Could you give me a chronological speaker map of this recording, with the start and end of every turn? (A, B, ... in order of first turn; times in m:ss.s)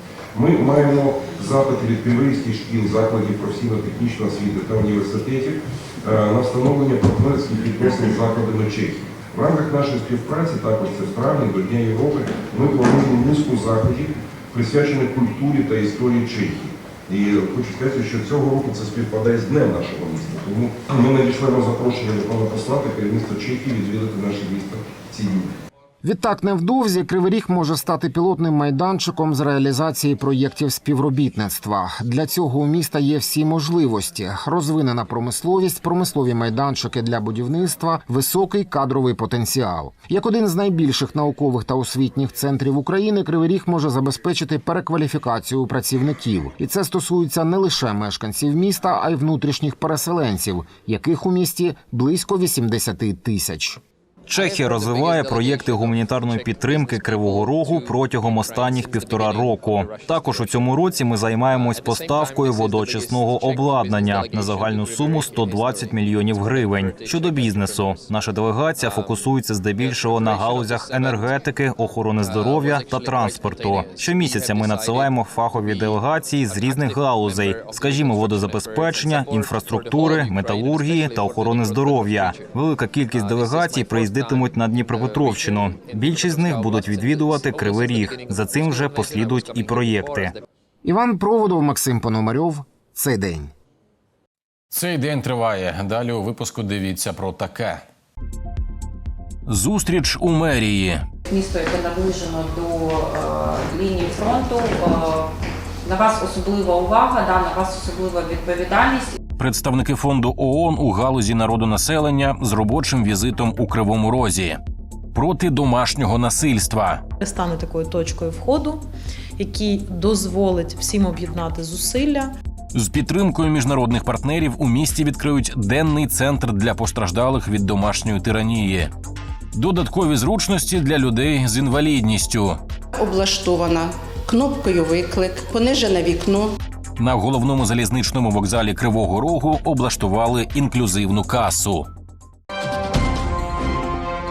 0:00.3-0:25.5 A
0:26.0-0:53.8 B
0:54.3-1:30.3 C
1:30.8-1:33.5 B
1:34.7-1:37.8 D
1:39.5-1:41.0 D
1:41.3-1:45.3 E
1:45.8-1:49.1 E
1:49.4-1:54.6 D
1:55.1-1:57.0 D
1:57.2-1:58.8 F
1:59.4-2:02.3 F
2:02.7-2:08.9 D
2:09.5-2:12.6 D
2:12.9-2:16.6 G
2:17.0-2:21.9 D